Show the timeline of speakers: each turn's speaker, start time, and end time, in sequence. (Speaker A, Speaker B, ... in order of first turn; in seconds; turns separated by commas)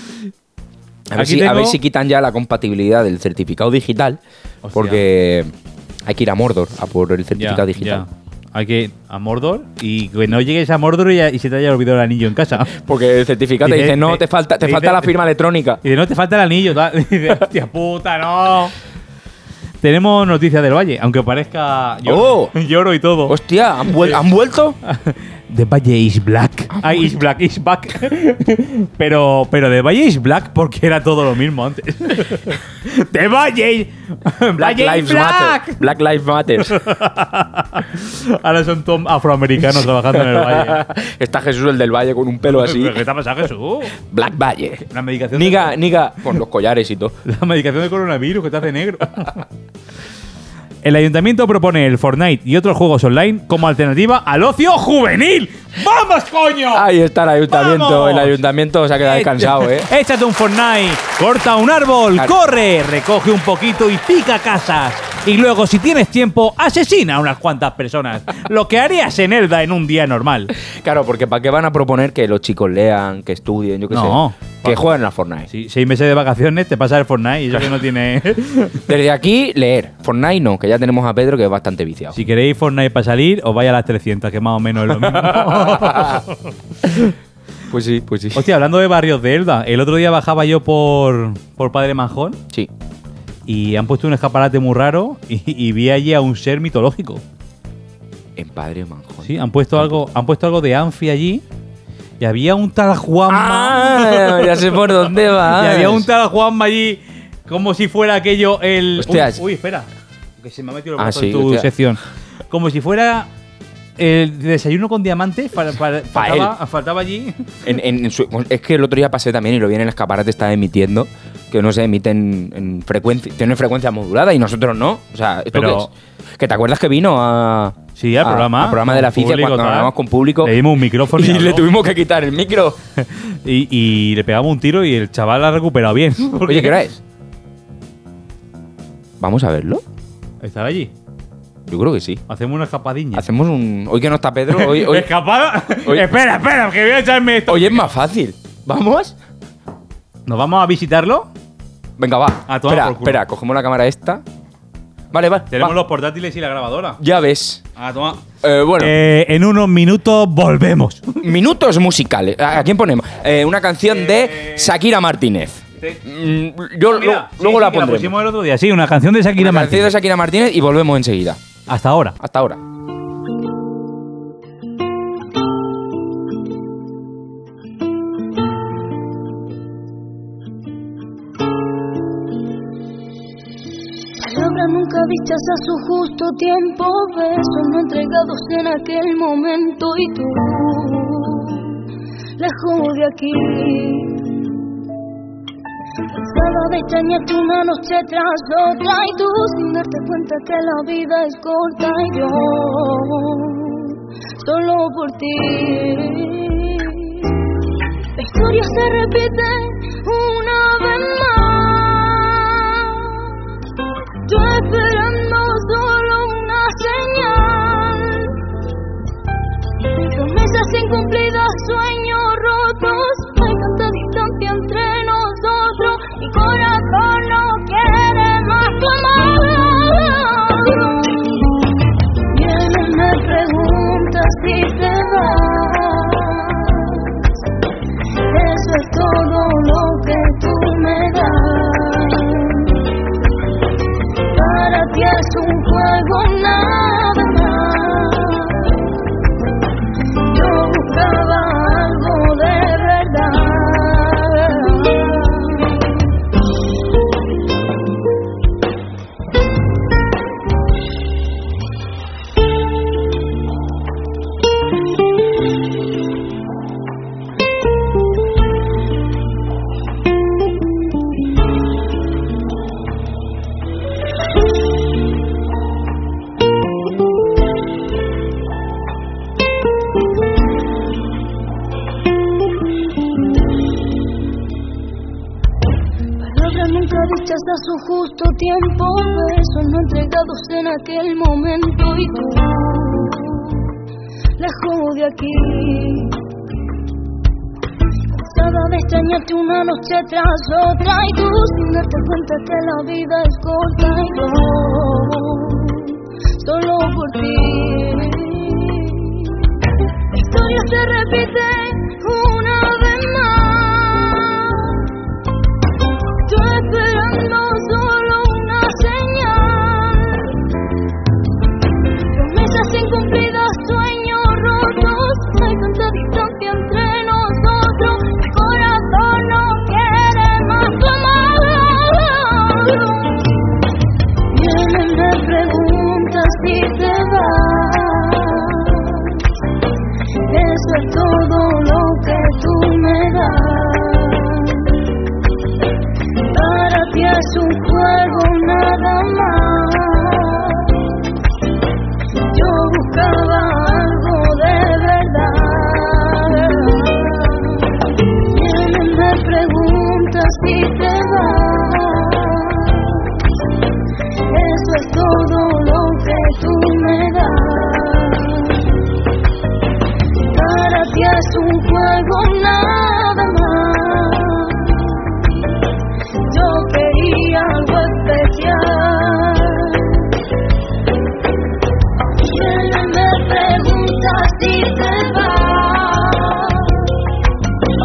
Speaker A: 1.1-4.2, Speaker B: 1.1-1.8, Speaker B: 4.6-5.0, Speaker A: 4.7-5.5, Speaker A: 6.0-8.1, Speaker B: 7.3-12.7, Speaker A: 12.7-15.8, Speaker B: 13.6-15.2, Speaker B: 15.8-18.7, Speaker B: 19.8-24.2, Speaker A: 22.0-22.5, Speaker A: 23.3-24.8, Speaker B: 24.8-35.8, Speaker A: 26.7-27.1, Speaker A: 34.6-36.8, Speaker B: 36.6-40.8, Speaker A: 40.0-43.0, Speaker B: 42.4-43.9, Speaker A: 44.0-47.2, Speaker B: 44.8-46.0, Speaker B: 47.2-49.4, Speaker B: 50.8-56.9, Speaker A: 56.7-59.9, Speaker B: 57.5-58.4, Speaker B: 59.0-70.5, Speaker A: 62.1-62.4, Speaker A: 70.7-75.5, Speaker B: 73.9-74.9, Speaker B: 75.5-78.8, Speaker A: 78.9-82.2, Speaker B: 82.1-86.3, Speaker A: 85.1-86.1, Speaker A: 87.7-88.4, Speaker B: 88.3-92.4, Speaker B: 93.5-97.2, Speaker A: 98.4-100.0, Speaker B: 99.2-101.4, Speaker B: 102.2-113.3, Speaker A: 103.3-106.1, Speaker A: 109.0-109.4, Speaker A: 111.0-111.7, Speaker B: 114.0-117.5, Speaker A: 116.1-116.6, Speaker A: 117.6-132.8, Speaker B: 125.5-125.9, Speaker B: 128.0-131.7, Speaker B: 133.0-136.8, Speaker A: 136.4-137.0, Speaker A: 139.2-139.8, Speaker B: 140.4-140.9, Speaker A: 141.7-142.2, Speaker B: 142.3-143.2, Speaker A: 143.1-145.1, Speaker B: 144.5-147.9, Speaker A: 145.8-146.1, Speaker A: 147.4-149.1, Speaker B: 150.3-151.3, Speaker A: 152.0-154.2, Speaker B: 152.5-153.2, Speaker A: 155.1-155.8, Speaker B: 155.5-157.0, Speaker A: 157.0-157.6, Speaker B: 157.8-158.2, Speaker A: 158.4-158.9, Speaker B: 158.8-161.2, Speaker A: 161.2-168.2, Speaker B: 163.8-164.7, Speaker B: 166.8-169.9, Speaker A: 169.4-171.4, Speaker B: 171.7-172.2, Speaker A: 172.2-172.6, Speaker C: 184.2-191.8, Speaker C: 192.4-194.4, Speaker C: 196.1-207.5, Speaker C: 208.2-213.5, Speaker C: 214.2-218.4, Speaker C: 220.0-231.4, Speaker C: 232.3-237.3, Speaker C: 238.2-242.9, Speaker C: 244.3-249.2, Speaker C: 250.3-256.0, Speaker C: 286.2-293.8, Speaker C: 294.4-296.2, Speaker C: 298.2-314.9, Speaker C: 316.2-320.4, Speaker C: 322.1-333.5, Speaker C: 334.3-339.3, Speaker C: 340.2-344.8, Speaker C: 346.3-351.1, Speaker C: 352.3-363.3, Speaker C: 364.3-368.8, Speaker C: 370.3-375.6, Speaker C: 376.3-380.1, Speaker C: 382.2-387.0